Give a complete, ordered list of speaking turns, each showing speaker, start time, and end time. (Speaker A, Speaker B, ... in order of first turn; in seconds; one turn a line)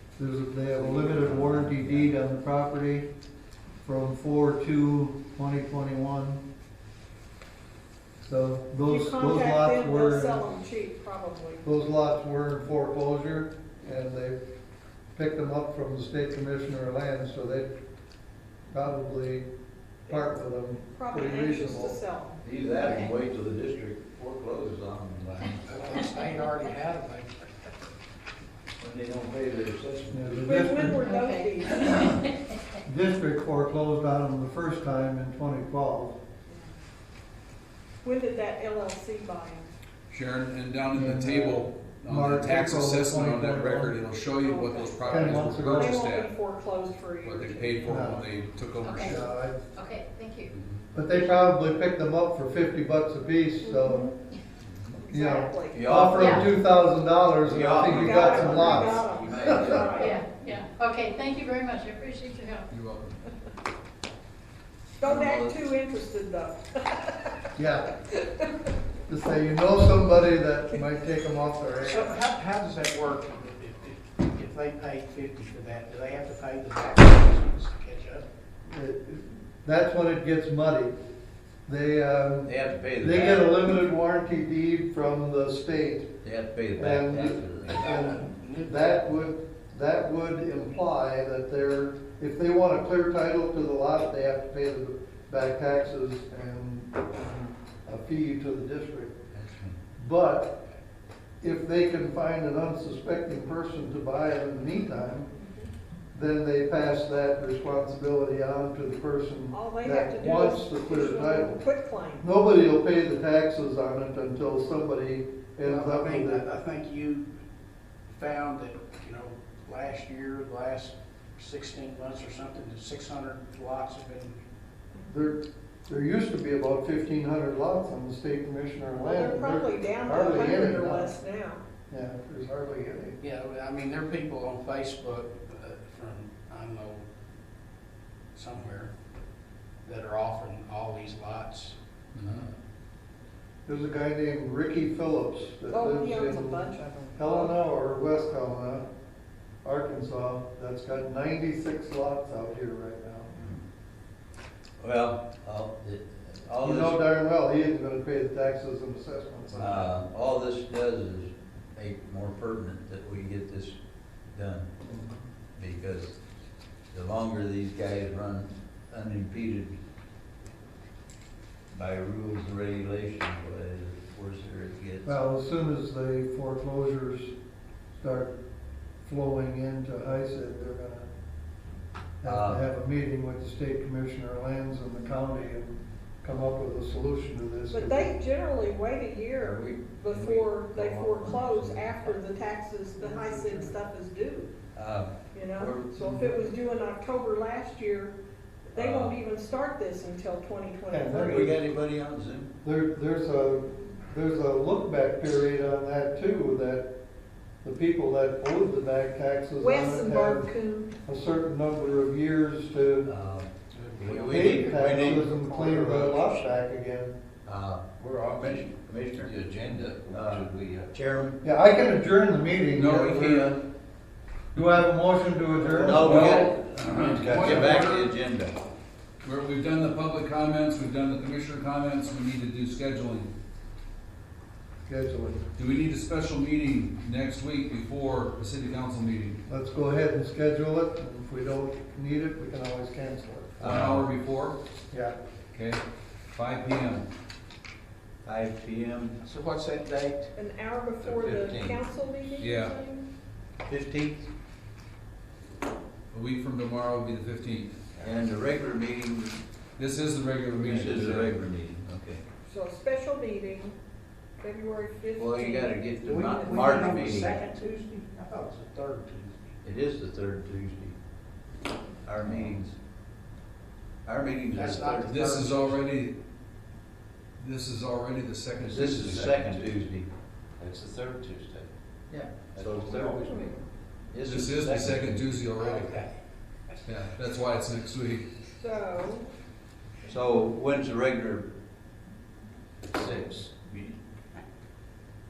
Speaker A: 0.2-3.1
Speaker B: 0.9-2.1
Speaker A: 3.8-6.4
Speaker A: 8.2-10.4
Speaker C: 8.8-11.6
Speaker A: 11.6-14.4
Speaker A: 15.2-17.7
Speaker A: 18.7-19.5
Speaker A: 20.1-22.0
Speaker C: 20.9-22.4
Speaker B: 22.4-25.6
Speaker D: 22.8-23.1
Speaker E: 25.7-27.5
Speaker B: 28.8-30.6
Speaker A: 30.1-31.0
Speaker C: 30.4-32.2
Speaker D: 30.9-32.6
Speaker A: 32.9-36.2
Speaker C: 38.0-39.7
Speaker F: 40.1-46.3
Speaker A: 40.9-44.0
Speaker C: 44.4-48.1
Speaker A: 45.1-46.0
Speaker F: 47.2-49.2
Speaker A: 47.9-48.2
Speaker D: 48.8-49.2
Speaker A: 49.0-49.6
Speaker D: 49.7-50.5
Speaker F: 50.5-50.8
Speaker A: 50.9-54.1
Speaker C: 53.6-54.2
Speaker C: 55.0-55.9
Speaker A: 55.1-59.0
Speaker B: 55.7-56.5
Speaker D: 56.1-56.5
Speaker B: 57.4-60.1
Speaker C: 57.8-60.2
Speaker A: 59.5-59.8
Speaker D: 59.9-62.7
Speaker F: 62.7-63.2
Speaker C: 64.9-67.3
Speaker B: 65.0-65.7
Speaker A: 67.6-67.9
Speaker C: 68.1-68.7
Speaker A: 69.1-72.2
Speaker E: 71.8-78.2
Speaker A: 78.7-80.9
Speaker A: 81.7-86.1
Speaker B: 82.5-83.5
Speaker B: 86.2-87.8
Speaker A: 86.8-99.2
Speaker E: 87.7-89.1
Speaker B: 99.3-99.8
Speaker A: 100.0-100.6
Speaker A: 101.4-105.3
Speaker C: 105.3-105.7
Speaker A: 106.1-111.6
Speaker C: 109.5-112.3
Speaker A: 112.2-116.4
Speaker E: 115.6-117.3
Speaker E: 118.1-124.4
Speaker A: 125.1-131.2
Speaker C: 129.0-131.6
Speaker A: 131.9-133.2
Speaker E: 133.2-137.0
Speaker E: 138.3-138.9
Speaker E: 139.8-142.5
Speaker F: 142.2-142.5
Speaker A: 143.7-148.9
Speaker C: 145.7-147.6
Speaker A: 149.6-153.5
Speaker B: 154.8-157.0
Speaker A: 156.6-159.9
Speaker B: 159.5-163.8
Speaker B: 164.3-164.7
Speaker A: 164.8-165.2
Speaker B: 165.6-166.2
Speaker B: 166.9-169.8
Speaker B: 171.7-175.1
Speaker A: 175.1-177.3
Speaker A: 178.0-178.3
Speaker A: 179.0-181.1
Speaker A: 182.2-188.1
Speaker B: 182.3-182.7
Speaker C: 187.7-194.5
Speaker B: 189.4-192.1
Speaker A: 193.0-193.8
Speaker B: 194.7-196.0
Speaker C: 195.3-198.2
Speaker A: 196.0-196.3
Speaker C: 198.7-201.5
Speaker B: 198.8-199.2
Speaker A: 200.9-201.6
Speaker B: 201.2-202.5
Speaker A: 202.6-206.9
Speaker A: 207.6-210.5
Speaker C: 209.6-211.0
Speaker A: 211.1-213.1
Speaker B: 213.0-216.3
Speaker E: 213.7-215.5
Speaker A: 214.3-217.2
Speaker B: 217.4-219.3
Speaker G: 218.0-220.9
Speaker B: 220.1-221.4
Speaker A: 221.4-223.5
Speaker F: 222.8-223.6
Speaker B: 222.9-223.6
Speaker A: 224.5-226.3
Speaker B: 225.7-228.6
Speaker F: 225.9-228.1
Speaker F: 229.2-233.3
Speaker A: 234.9-235.4
Speaker F: 235.6-239.4
Speaker A: 239.5-243.6
Speaker B: 243.6-244.1
Speaker F: 243.6-244.6
Speaker A: 244.9-245.2
Speaker F: 245.5-245.8
Speaker F: 246.3-247.1
Speaker B: 248.2-249.2
Speaker E: 249.2-250.3
Speaker C: 250.4-253.1
Speaker B: 251.0-251.8
Speaker F: 252.4-252.8
Speaker B: 253.7-254.3
Speaker F: 256.1-257.8
Speaker B: 258.0-259.4
Speaker F: 259.8-261.3
Speaker B: 260.6-262.2
Speaker C: 262.5-263.8
Speaker C: 264.4-267.1
Speaker B: 265.2-267.4
Speaker E: 266.0-269.6
Speaker B: 269.6-270.9
Speaker B: 272.1-272.8
Speaker B: 274.1-275.3
Speaker E: 274.5-275.9
Speaker F: 275.1-276.2
Speaker F: 277.4-279.2
Speaker B: 278.6-280.1
Speaker G: 278.9-279.8
Speaker G: 280.6-281.7
Speaker G: 282.3-283.5
Speaker B: 282.6-283.3
Speaker B: 284.1-285.1
Speaker F: 284.2-286.0
Speaker E: 285.6-286.1
Speaker F: 286.9-288.2
Speaker C: 288.6-289.3
Speaker B: 290.1-291.5
Speaker B: 292.9-293.9